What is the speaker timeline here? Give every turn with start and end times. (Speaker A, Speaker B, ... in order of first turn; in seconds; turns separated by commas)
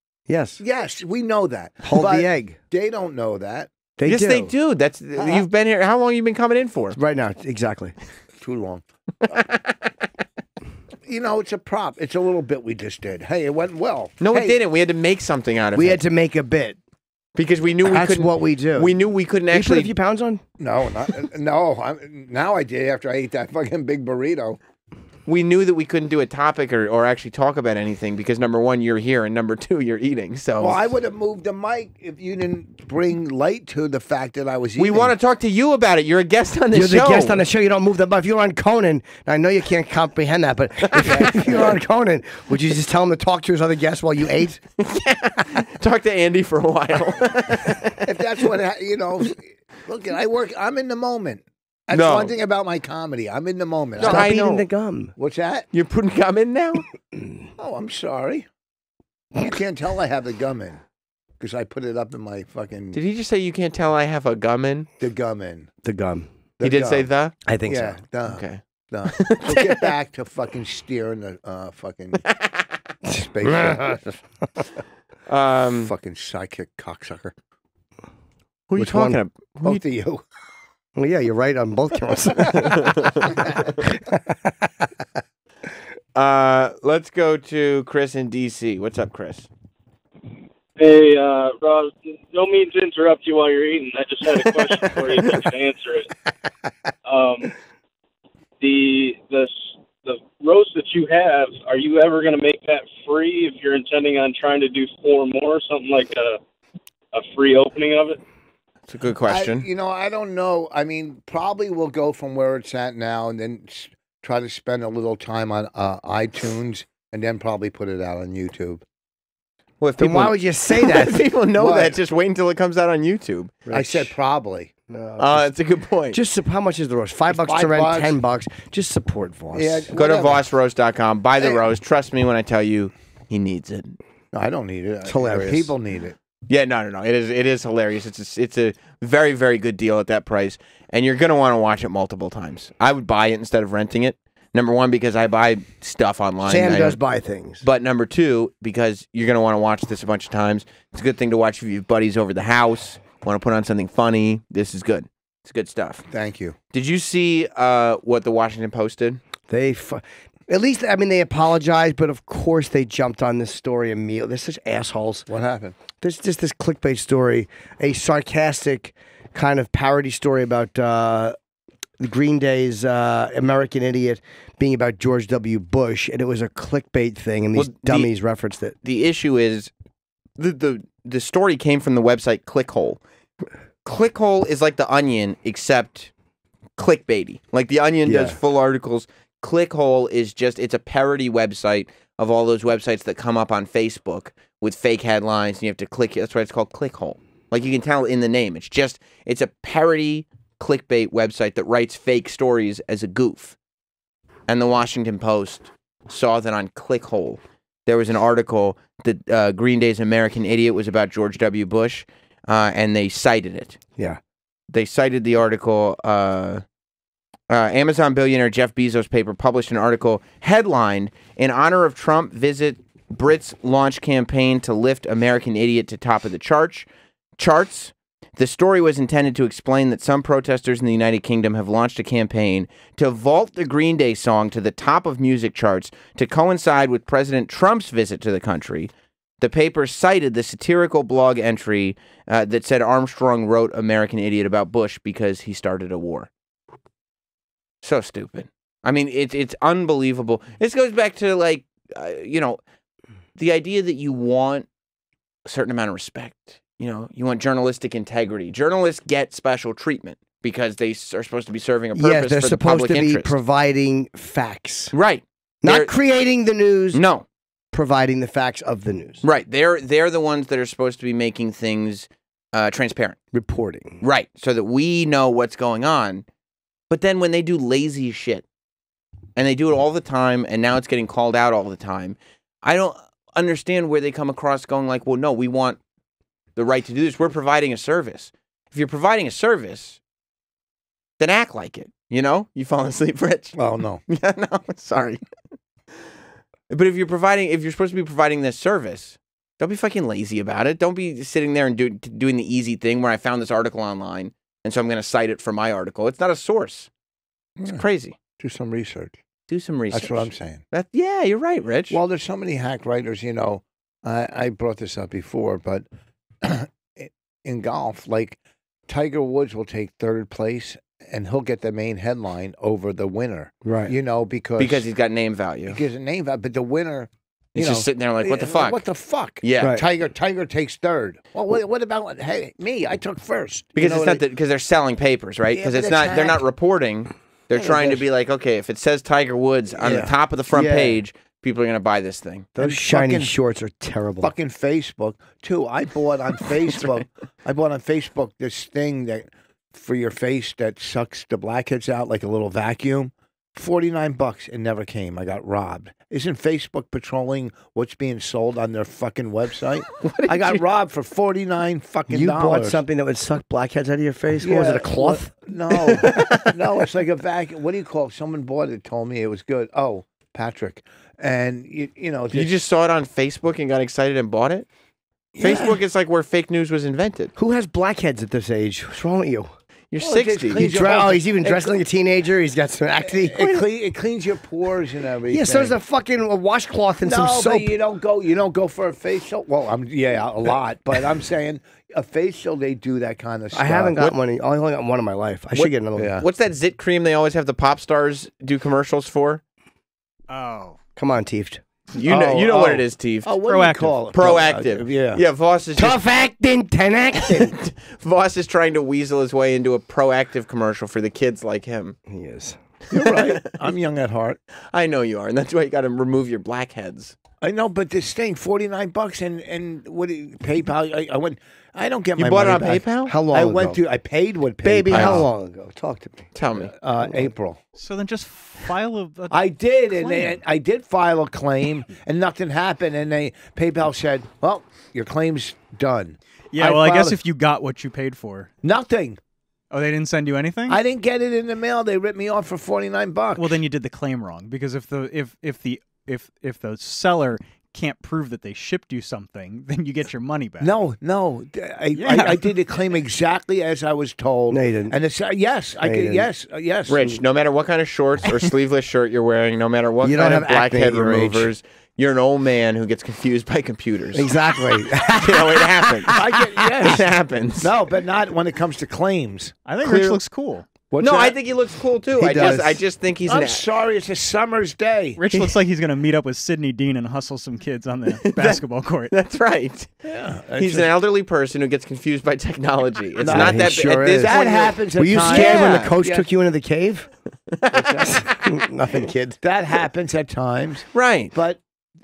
Speaker A: 0.3-0.6, Speaker B: 0.6-3.7, Speaker A: 1.8-2.6, Speaker A: 4.0-4.5, Speaker C: 4.0-7.0, Speaker B: 5.2-5.4, Speaker A: 7.0-7.9, Speaker B: 8.4-9.4, Speaker B: 11.0-14.6, Speaker C: 14.2-16.0, Speaker A: 15.7-16.8, Speaker C: 17.4-19.9, Speaker A: 17.8-18.9, Speaker A: 19.5-20.4, Speaker B: 20.6-24.6, Speaker C: 25.2-30.8, Speaker B: 30.6-35.1, Speaker C: 34.8-37.4, Speaker A: 36.7-44.6, Speaker C: 40.9-41.3, Speaker B: 41.0-41.8, Speaker C: 44.8-48.1, Speaker B: 48.0-54.4, Speaker C: 51.9-52.3, Speaker C: 54.0-54.6, Speaker A: 54.0-55.1, Speaker B: 55.2-55.7, Speaker C: 55.7-56.8, Speaker B: 57.6-58.5, Speaker B: 59.4-60.8, Speaker B: 61.4-63.0, Speaker C: 62.9-64.9, Speaker B: 65.0-65.7, Speaker A: 65.8-66.3, Speaker B: 66.6-67.1, Speaker C: 66.6-67.3, Speaker A: 67.5-68.0, Speaker B: 67.7-72.2, Speaker C: 68.3-69.9, Speaker B: 73.1-74.0, Speaker A: 73.5-74.0, Speaker C: 75.3-75.9, Speaker B: 75.8-77.3, Speaker C: 78.7-79.8, Speaker A: 78.8-79.2, Speaker B: 79.6-80.2, Speaker A: 81.0-82.8, Speaker C: 82.5-83.5, Speaker A: 83.8-84.7, Speaker C: 86.1-89.5, Speaker D: 90.8-96.1, Speaker D: 97.0-97.6, Speaker D: 98.6-106.4, Speaker D: 107.1-108.2, Speaker C: 108.9-109.6, Speaker B: 109.2-118.8, Speaker C: 119.8-123.6, Speaker A: 120.0-121.2, Speaker B: 121.6-122.0, Speaker A: 123.7-124.1, Speaker B: 123.7-124.7, Speaker A: 124.9-125.5, Speaker C: 125.2-126.2, Speaker A: 126.1-129.9, Speaker B: 127.3-128.2, Speaker B: 129.5-130.4, Speaker C: 129.9-134.0, Speaker B: 134.3-136.2, Speaker A: 135.1-135.7, Speaker C: 136.5-147.0, Speaker A: 146.4-147.6, Speaker C: 147.6-156.0, Speaker B: 156.1-156.6, Speaker C: 156.7-159.2, Speaker A: 159.5-165.3, Speaker B: 165.3-165.8, Speaker A: 166.0-171.3, Speaker A: 172.0-178.7, Speaker C: 177.5-178.1, Speaker C: 178.8-179.7, Speaker C: 180.4-183.0, Speaker C: 183.8-186.1, Speaker C: 186.8-203.6, Speaker A: 188.0-188.4, Speaker C: 204.5-213.8, Speaker C: 214.7-216.6, Speaker C: 217.5-246.3, Speaker C: 247.8-252.6, Speaker C: 253.4-254.7, Speaker C: 255.4-263.3, Speaker A: 261.9-264.9, Speaker C: 264.9-265.9, Speaker A: 265.6-267.0, Speaker C: 266.9-267.2, Speaker A: 267.7-269.2, Speaker C: 269.2-273.2, Speaker A: 273.3-274.0, Speaker C: 274.0-276.2, Speaker C: 276.9-278.4, Speaker C: 279.4-285.8, Speaker C: 286.6-290.0, Speaker C: 291.2-295.2, Speaker B: 293.6-294.0, Speaker C: 296.7-306.9, Speaker C: 307.6-308.2, Speaker B: 308.4-309.2, Speaker C: 309.5-312.0, Speaker B: 309.9-310.6, Speaker B: 311.9-315.9, Speaker B: 316.4-324.9, Speaker A: 323.6-323.9, Speaker C: 324.6-325.8, Speaker B: 325.7-334.2, Speaker C: 327.5-328.8, Speaker C: 329.4-329.8, Speaker A: 329.6-329.8, Speaker C: 333.8-342.5, Speaker B: 335.5-336.4, Speaker B: 337.6-338.0, Speaker B: 339.8-340.1, Speaker A: 340.5-341.0, Speaker A: 342.6-344.3, Speaker B: 342.6-343.3, Speaker B: 344.2-362.8, Speaker C: 360.0-360.6, Speaker A: 362.1-365.3, Speaker B: 364.4-372.5, Speaker C: 366.0-366.5, Speaker C: 372.3-374.7, Speaker B: 375.3-375.7, Speaker C: 375.4-377.3, Speaker A: 377.4-379.5, Speaker C: 379.9-380.6, Speaker B: 380.0-381.7, Speaker A: 380.6-383.5, Speaker B: 383.0-385.8, Speaker A: 385.3-387.8, Speaker B: 387.0-393.9, Speaker A: 393.5-396.1, Speaker B: 395.6-396.2, Speaker C: 396.2-399.4, Speaker E: 400.3-400.8, Speaker A: 400.9-401.6, Speaker C: 401.9-403.4, Speaker B: 402.1-405.2, Speaker E: 403.4-404.0, Speaker C: 404.1-406.0, Speaker A: 405.8-407.5, Speaker C: 407.2-412.0, Speaker A: 412.1-412.6, Speaker B: 412.9-414.4, Speaker C: 412.9-413.7, Speaker C: 414.7-417.1, Speaker B: 417.4-425.2, Speaker C: 422.2-423.1, Speaker A: 423.1-423.8, Speaker A: 424.6-426.3, Speaker C: 424.9-425.2, Speaker C: 426.3-426.7, Speaker B: 426.5-427.6, Speaker E: 427.8-430.4, Speaker B: 429.3-437.2, Speaker E: 436.5-438.5, Speaker B: 438.6-439.2, Speaker E: 439.7-440.8, Speaker B: 440.7-443.6, Speaker E: 443.4-450.7, Speaker B: 450.6-457.1, Speaker E: 451.9-452.5, Speaker A: 454.5-455.0, Speaker A: 455.8-456.3, Speaker C: 456.9-464.4, Speaker A: 460.0-461.5, Speaker A: 464.1-466.2, Speaker C: 465.0-466.1, Speaker B: 466.1-467.1, Speaker C: 466.8-467.7, Speaker B: 467.6-469.5, Speaker E: 469.6-470.6, Speaker C: 469.8-470.2, Speaker B: 470.9-471.4, Speaker C: 471.0-473.7, Speaker A: 472.1-472.8, Speaker B: 473.3-475.2, Speaker E: 475.2-479.1, Speaker C: 478.2-478.6, Speaker C: 479.1-479.9, Speaker B: 480.0-480.9, Speaker C: 480.6-485.9, Speaker B: 483.2-486.3, Speaker A: 483.2-484.3, Speaker A: 484.9-487.1, Speaker C: 487.6-488.1, Speaker B: 487.7-488.1, Speaker A: 488.0-489.4, Speaker B: 489.4-491.6, Speaker C: 490.9-491.3